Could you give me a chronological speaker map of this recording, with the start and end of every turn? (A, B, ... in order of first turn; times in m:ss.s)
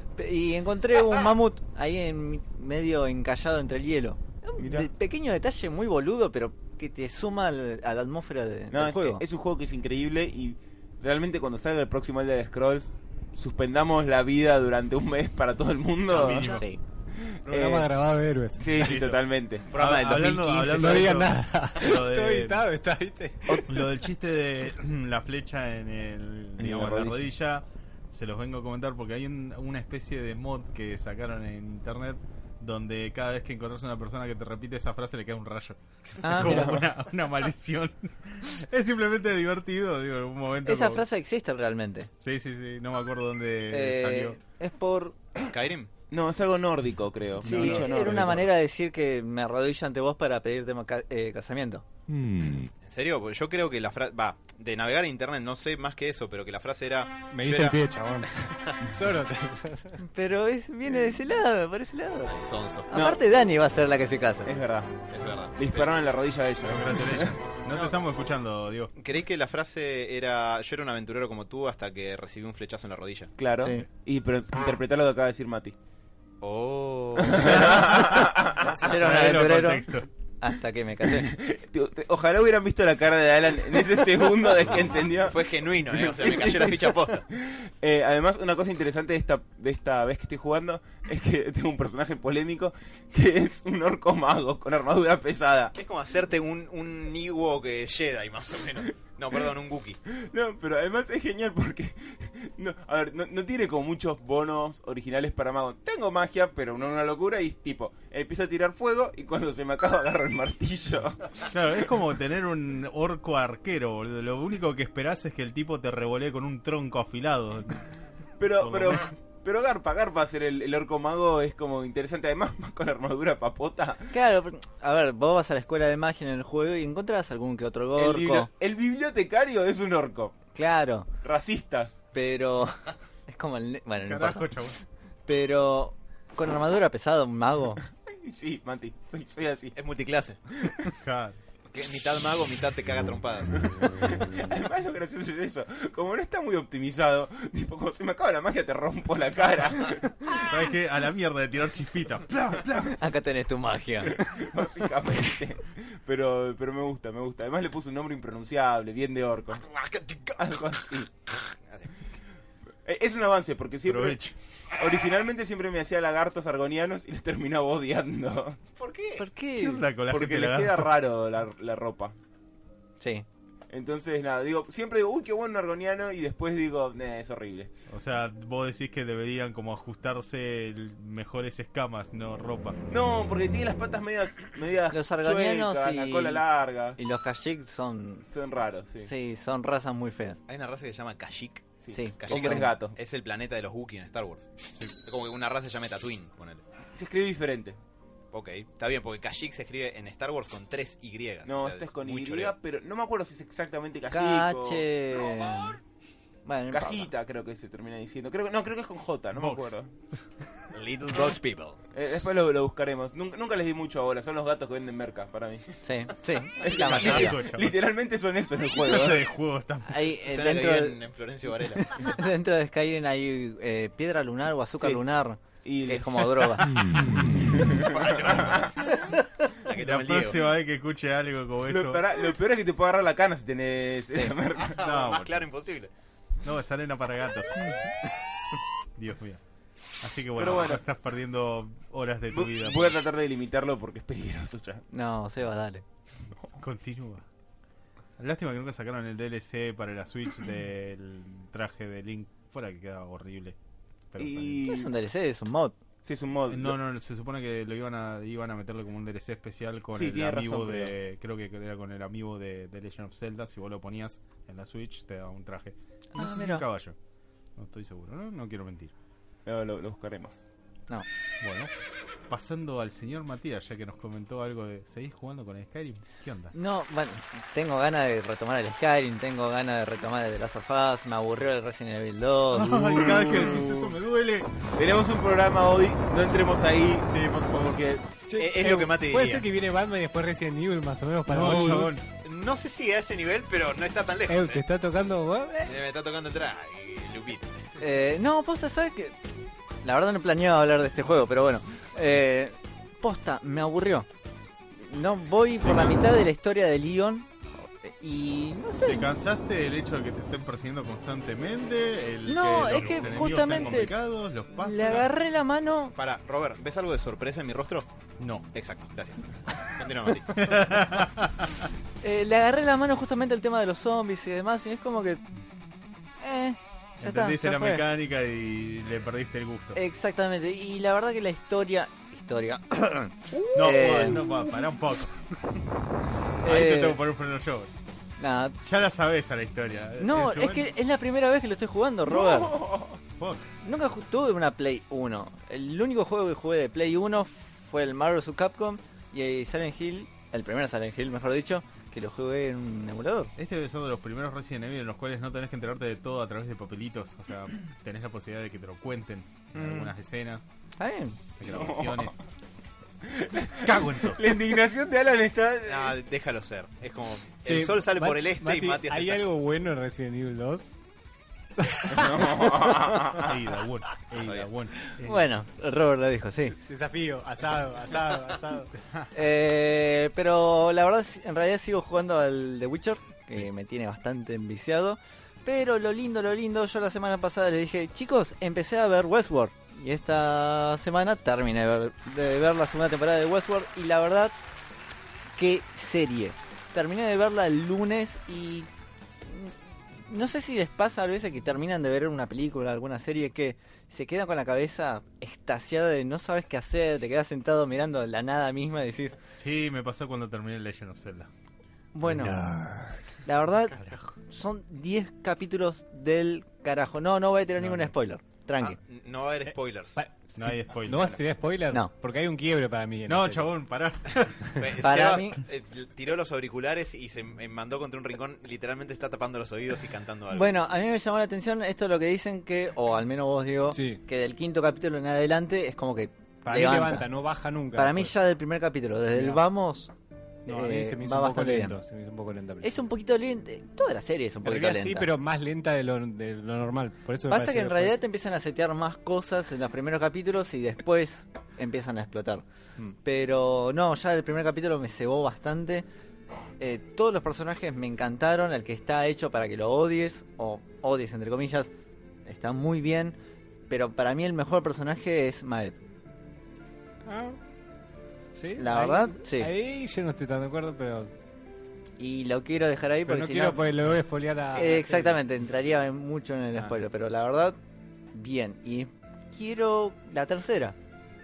0:00.2-0:09.2 A
0:04.6-0:04.9 B
0:08.7-0:16.6 B
0:16.1-0:16.6 C
0:16.3-0:16.8 A
0:17.2-0:17.9 B
0:17.5-0:18.8 D
0:18.6-0:19.7 B
0:18.8-0:22.7 C
0:19.7-0:21.3 E
0:20.7-0:23.7 D
0:23.6-0:41.1 C
0:26.6-0:27.2 B
0:36.2-0:36.8 A
0:36.4-0:36.8 B
0:40.6-0:42.1 A
0:42.2-0:44.4 C
0:43.7-0:45.2 A
0:45.5-0:45.9 E
0:46.1-0:48.5 B
0:47.4-0:51.8 A
0:47.5-0:47.8 C
0:52.8-0:57.8 E
0:57.3-1:00.0 D
1:00.0-1:02.4 A
1:02.3-1:02.9 E
1:02.9-1:04.5 A
1:02.9-1:03.2 B
1:04.4-1:04.9 B
1:05.1-1:06.0 E
1:05.6-1:07.3 B
1:06.6-1:08.9 C
1:09.0-1:13.3 E
1:13.4-1:15.8 B
1:13.6-1:13.9 A
1:16.4-1:18.1 E
1:17.2-1:18.9 B
1:18.8-1:19.9 A
1:18.8-1:20.1 C
1:20.4-1:21.4 A
1:21.1-1:35.7 B
1:25.2-1:27.2 E
1:35.8-1:40.0 E
1:40.1-1:51.4 B
1:51.4-1:57.9 C
1:58.4-2:04.1 B
1:58.6-1:59.1 C
2:04.1-2:08.5 A
2:08.0-2:10.4 B
2:10.6-2:11.1 A
2:11.2-2:12.0 B
2:12.1-2:14.5 A
2:14.0-2:14.8 C
2:15.3-2:17.8 A
2:18.0-2:19.8 B
2:19.8-2:20.4 E
2:20.9-2:21.4 C
2:21.7-2:23.9 E
2:23.7-2:30.2 B
2:30.3-2:33.0 C
2:32.9-2:34.5 A
2:34.1-2:39.7 B
2:39.7-2:40.7 E
2:40.4-2:41.1 B
2:41.4-2:42.0 E
2:42.8-2:44.2 B
2:43.9-2:44.4 C
2:44.8-2:48.6 B
2:48.8-2:49.2 E
2:49.2-2:49.8 A
2:49.6-2:50.9 C
2:50.1-2:52.2 B
2:53.0-2:53.3 A
2:53.7-2:57.7 B
2:57.9-3:02.8 C
3:02.9-3:07.0 B
3:04.9-3:06.4 A
3:07.0-3:08.3 A
3:08.3-3:09.1 B
3:09.0-3:10.4 A
3:10.5-3:16.6 E
3:11.8-3:13.0 B
3:11.9-3:12.7 A
3:16.8-3:17.8 B
3:18.3-3:22.6 E
3:21.5-3:24.8 B
3:24.1-3:25.8 A
3:26.5-3:27.1 A
3:26.7-3:29.9 B
3:29.3-3:29.8 C
3:30.7-3:31.8 E
3:31.9-3:35.7 B
3:35.8-3:37.4 A
3:36.6-3:39.2 B
3:36.7-3:37.8 C
3:38.7-3:40.0 C
3:39.9-3:41.0 A
3:40.1-3:42.1 E
3:41.9-3:46.7 A
3:45.6-3:46.6 B
3:47.4-3:48.7 B
3:47.8-3:48.9 E
3:49.6-3:50.4 E
3:49.7-3:52.2 C
3:51.7-3:54.8 B
3:54.6-3:55.9 E
3:54.7-3:55.5 C
3:56.4-3:57.8 C
3:59.0-3:59.4 C
4:00.0-4:03.0 C
4:00.4-4:00.8 B
4:02.3-4:04.8 B
4:04.9-4:05.8 A
4:06.5-4:07.2 C
4:08.2-4:13.6 C
4:14.1-4:14.7 C
4:14.2-4:14.9 B
4:14.6-4:15.8 A
4:16.0-4:16.8 B
4:16.5-4:27.0 C
4:19.9-4:20.9 B
4:26.1-4:26.6 A
4:27.6-4:28.9 C
4:29.5-4:30.4 B
4:31.4-4:31.7 C
4:32.3-4:36.5 C
4:36.5-4:43.1 A
4:42.5-4:44.5 C
4:42.8-4:43.9 B
4:44.8-4:48.1 B
4:47.0-4:47.8 C
4:48.3-4:52.0 D
4:48.4-4:49.5 E
4:51.3-4:52.0 C
4:52.2-4:54.6 E
4:54.3-4:55.7 D
4:55.6-4:57.5 E
4:57.8-4:59.2 A
4:59.8-5:04.1 A
5:04.8-5:09.1 A
5:05.6-5:06.0 C
5:08.8-5:15.1 C
5:12.3-5:13.9 A
5:14.6-5:16.0 A
5:16.0-5:17.9 E
5:18.2-5:18.5 C
5:18.5-5:20.6 E
5:20.3-5:21.6 C
5:22.0-5:25.2 A
5:26.2-5:27.8 A
5:27.0-5:29.8 C
5:29.8-5:34.3 A
5:33.5-5:35.2 C
5:36.4-5:37.0 A
5:36.4-5:37.7 C
5:38.2-5:38.6 A
5:38.6-5:40.7 C
5:40.0-5:42.6 A
5:42.1-5:43.0 B
5:43.2-5:43.5 C
5:43.6-5:53.3 A
5:53.4-6:00.5 C
5:59.5-5:59.9 A
6:00.8-6:01.2 A
6:01.4-6:02.2 C
6:01.4-6:02.2 B
6:03.0-6:06.0 B
6:03.6-6:04.2 C
6:05.7-6:09.2 E
6:07.4-6:10.7 D
6:11.6-6:12.3 D
6:11.9-6:13.4 B
6:13.2-6:15.2 C
6:14.2-6:14.5 E
6:15.0-6:16.6 A
6:16.7-6:18.7 D
6:19.1-6:34.4 A
6:35.4-6:38.7 A
6:39.3-6:39.6 A
6:40.1-6:49.2 A
6:49.4-6:51.3 C
6:51.9-6:52.4 A
6:52.1-6:52.9 D
6:53.2-6:58.8 A
6:53.8-6:54.1 C
6:58.6-7:00.0 E
7:00.0-7:03.5 D
7:00.4-7:01.2 C
7:03.1-7:04.4 C
7:04.6-7:10.5 E
7:04.8-7:05.4 A
7:10.3-7:17.1 A
7:13.7-7:14.0 D
7:16.4-7:18.1 D
7:17.8-7:19.9 A
7:19.1-7:19.4 D
7:20.5-7:22.8 D
7:20.5-7:21.8 A
7:22.6-7:25.1 A
7:24.4-7:28.0 D
7:27.3-7:32.4 A
7:33.0-7:35.9 A
7:36.6-7:41.7 A
7:42.3-7:43.2 A
7:43.7-7:45.8 A
7:47.1-7:47.4 D
7:48.4-7:51.1 D
7:48.6-7:49.5 A
7:52.0-7:53.6 A
7:53.0-7:55.2 D
7:54.5-7:57.6 A
7:58.1-8:00.8 A